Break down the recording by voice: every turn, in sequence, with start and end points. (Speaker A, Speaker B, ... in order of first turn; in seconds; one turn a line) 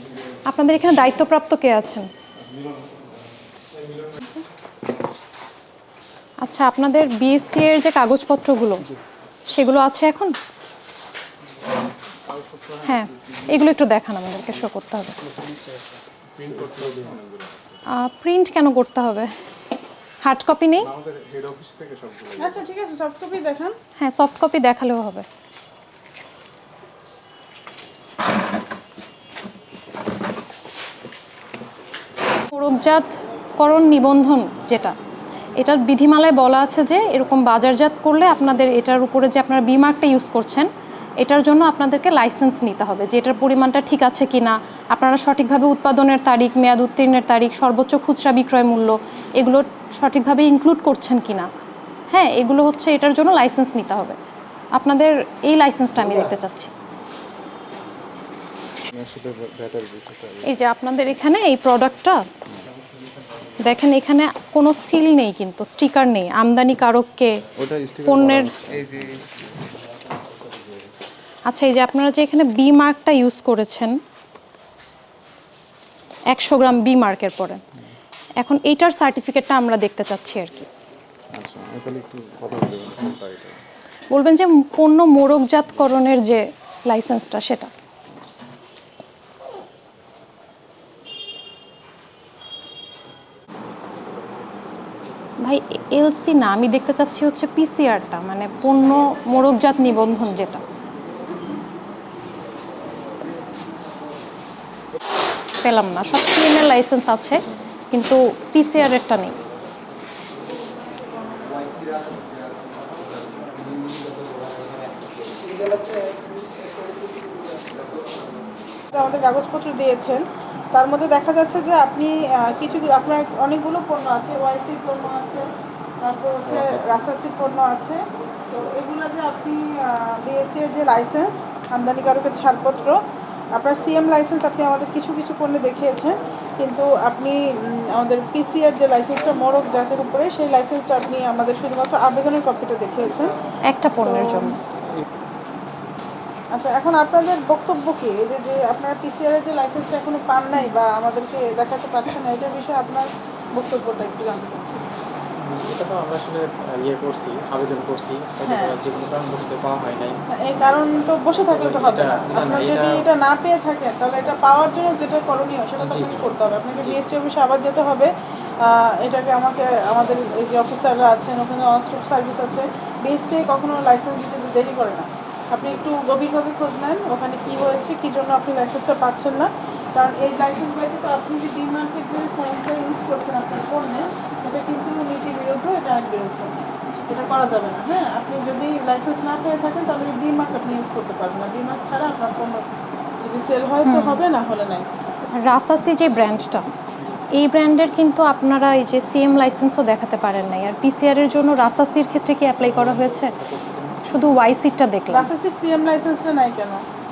Speaker A: 0.5-2.1
Speaker A: 6.4-8.9
Speaker A: 9.5-10.3
Speaker A: 12.8-15.2
Speaker B: 16.4-17.8
Speaker A: 17.9-19.3
Speaker A: 20.2-20.9
Speaker B: 20.8-22.6
Speaker C: 22.4-23.8
Speaker A: 24.0-25.2
Speaker A: 32.5-35.0
Speaker A: 35.6-51.5
Speaker A: 52.1-54.2
Speaker A: 54.7-56.7
Speaker B: 58.9-60.5
Speaker A: 60.4-62.3
Speaker A: 63.6-67.4
Speaker B: 67.5-69.2
Speaker A: 68.0-68.7
Speaker A: 71.5-74.0
Speaker A: 76.3-77.6
Speaker A: 78.4-80.7
Speaker B: 81.3-83.6
Speaker A: 84.1-87.7
Speaker A: 95.4-100.6
Speaker A: 105.6-107.4
Speaker A: 107.9-109.4
Speaker C: 118.9-125.5
Speaker C: 126.0-133.0
Speaker B: 126.4-126.9
Speaker C: 133.5-143.4
Speaker A: 143.7-144.5
Speaker C: 143.9-144.5
Speaker C: 146.5-154.9
Speaker D: 155.4-160.2
Speaker C: 158.4-158.8
Speaker C: 160.3-186.6
Speaker D: 161.5-163.1
Speaker D: 165.8-167.0
Speaker C: 187.1-192.7
Speaker C: 193.2-194.9
Speaker A: 193.8-194.2
Speaker A: 195.3-196.7
Speaker A: 197.3-203.3
Speaker D: 202.6-204.1
Speaker A: 204.1-205.3
Speaker C: 205.1-206.8